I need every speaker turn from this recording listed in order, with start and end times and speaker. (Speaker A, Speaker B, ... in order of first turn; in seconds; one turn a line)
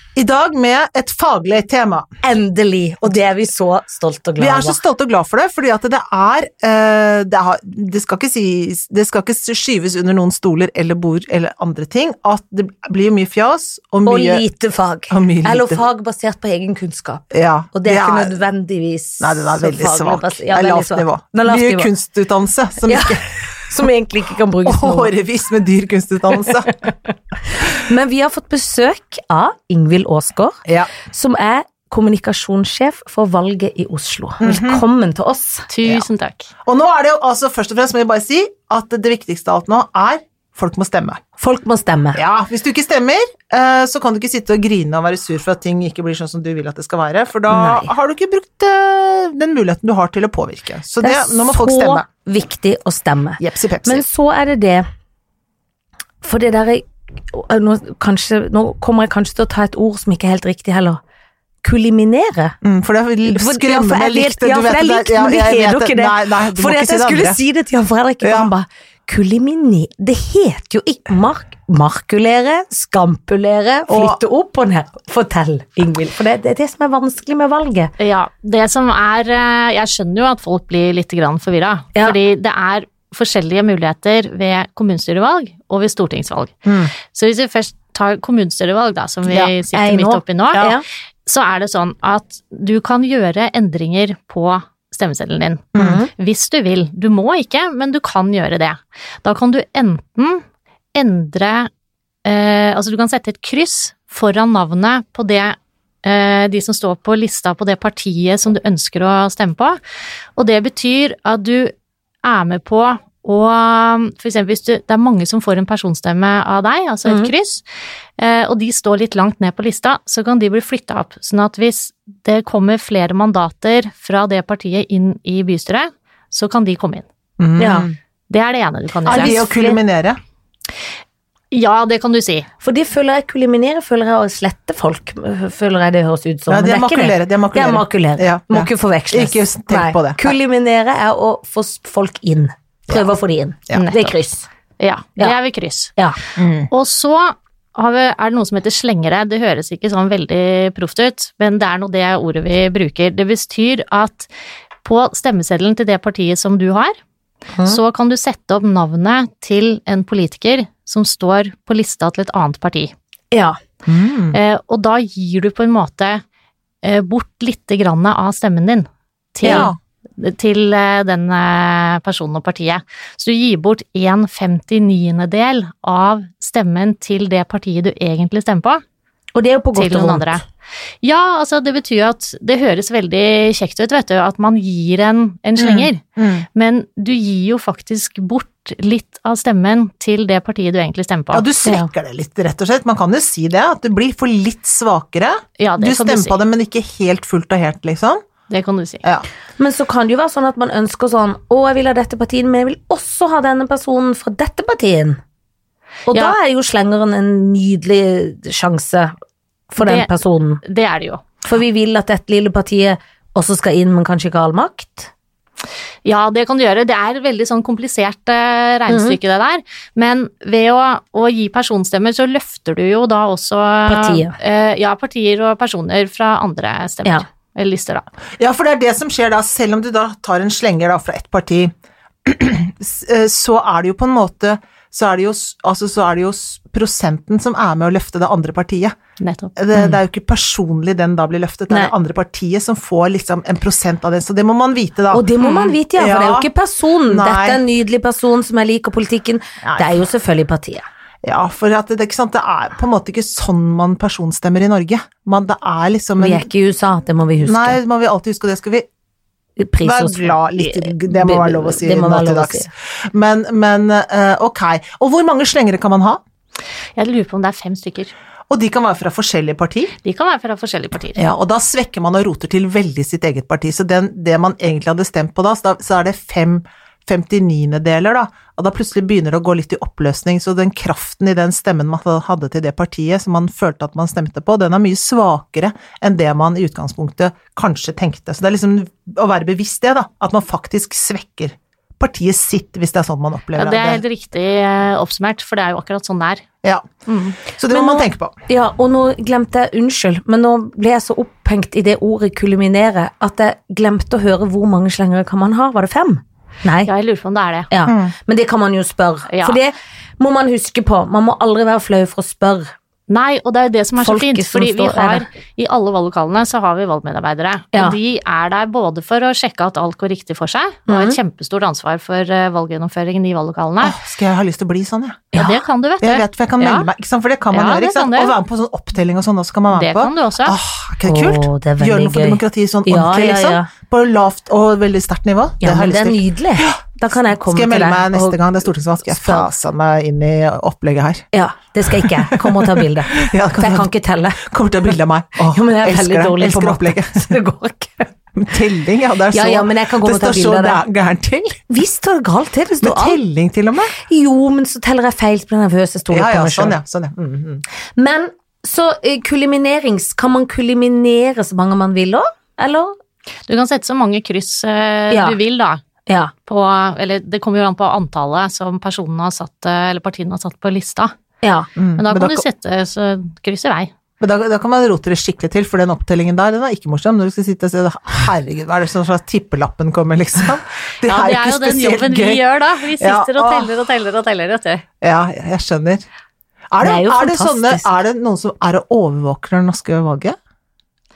Speaker A: 0.1-2.1
Speaker B: 2.2-4.8
Speaker A: 4.4-14.4
Speaker B: 14.0-21.9
Speaker A: 15.1-15.8
Speaker A: 17.3-18.3
Speaker A: 19.2-23.3
Speaker B: 22.9-25.1
Speaker A: 24.6-26.8
Speaker B: 27.5-35.7
Speaker A: 30.6-30.9
Speaker A: 34.4-34.8
Speaker C: 35.7-36.5
Speaker A: 36.6-41.2
Speaker B: 41.4-42.2
Speaker A: 42.1-52.0
Speaker B: 47.5-47.9
Speaker B: 51.0-54.9
Speaker A: 53.4-54.0
Speaker B: 56.2-61.0
Speaker B: 61.6-62.6
Speaker A: 62.6-67.4
Speaker B: 63.2-77.9
Speaker A: 68.2-68.5
Speaker A: 73.9-74.2
Speaker C: 78.0-100.4
Speaker A: 86.6-86.9
Speaker B: 89.3-90.8
Speaker A: 95.7-96.0
Speaker B: 95.8-96.1
Speaker C: 100.9-101.7
Speaker C: 102.2-109.8
Speaker C: 110.3-111.7
Speaker C: 112.2-117.6
Speaker C: 118.2-127.0
Speaker A: 127.4-128.0
Speaker B: 127.6-127.9
Speaker C: 128.3-129.4
Speaker B: 129.1-129.8
Speaker A: 129.1-130.2
Speaker C: 131.5-132.5
Speaker B: 132.6-144.5
Speaker A: 136.5-140.3
Speaker C: 143.7-144.1
Speaker C: 144.8-145.9
Speaker A: 146.4-146.7
Speaker C: 146.7-154.3
Speaker C: 154.8-156.9
Speaker C: 157.6-162.9
Speaker B: 163.3-163.6
Speaker A: 163.9-164.4
Speaker C: 164.3-166.2
Speaker C: 166.8-178.8
Speaker B: 169.4-169.7
Speaker A: 169.4-169.8
Speaker B: 179.3-180.4
Speaker C: 179.7-180.4
Speaker C: 181.0-186.0
Speaker A: 185.6-186.4
Speaker C: 186.5-191.4
Speaker A: 191.3-198.2
Speaker C: 195.6-196.4
Speaker C: 198.5-199.0
Speaker B: 199.6-205.2
Speaker B: 206.1-209.1
Speaker B: 209.7-210.6
Speaker C: 209.8-210.1
Speaker C: 210.6-211.2
Speaker B: 211.4-215.1
Speaker C: 216.0-228.1
Speaker B: 218.9-219.2
Speaker B: 223.9-224.3
Speaker A: 228.4-231.7
Speaker A: 232.2-238.9
Speaker C: 239.2-239.6
Speaker A: 239.6-246.5
Speaker B: 245.1-250.8
Speaker A: 247.1-247.6
Speaker A: 249.6-249.9
Speaker A: 251.2-256.5
Speaker B: 256.2-257.8
Speaker A: 257.4-258.9
Speaker B: 259.6-262.7
Speaker A: 259.8-266.2
Speaker C: 266.9-268.1
Speaker A: 268.5-269.9
Speaker C: 270.0-271.2
Speaker A: 271.1-294.0
Speaker C: 293.5-296.4
Speaker C: 297.1-297.4
Speaker A: 297.4-298.4
Speaker B: 297.7-306.9
Speaker C: 306.8-307.7
Speaker B: 307.7-312.7
Speaker A: 307.8-308.1
Speaker C: 309.3-309.6
Speaker C: 313.1-324.0
Speaker B: 314.0-315.2
Speaker B: 320.9-321.2
Speaker A: 323.8-325.3
Speaker B: 325.3-325.6
Speaker C: 325.3-326.9
Speaker A: 326.0-341.2
Speaker C: 327.5-328.4
Speaker C: 329.7-330.6
Speaker B: 331.0-333.7
Speaker B: 335.6-338.4
Speaker B: 339.1-339.5
Speaker B: 341.3-344.4
Speaker A: 341.9-347.3
Speaker B: 345.4-348.1
Speaker A: 348.3-351.6
Speaker B: 349.3-350.8
Speaker B: 351.7-353.2
Speaker A: 352.8-353.9
Speaker B: 353.9-356.8
Speaker A: 356.1-357.6
Speaker B: 357.9-363.0
Speaker C: 363.5-365.8
Speaker B: 365.1-365.4
Speaker B: 366.1-366.3
Speaker C: 366.5-371.1
Speaker B: 371.4-371.7
Speaker A: 371.8-372.4
Speaker C: 372.0-373.9
Speaker A: 374.2-382.4
Speaker C: 381.0-384.8
Speaker A: 383.0-383.8
Speaker A: 385.0-386.0
Speaker A: 386.7-390.4
Speaker B: 386.8-387.9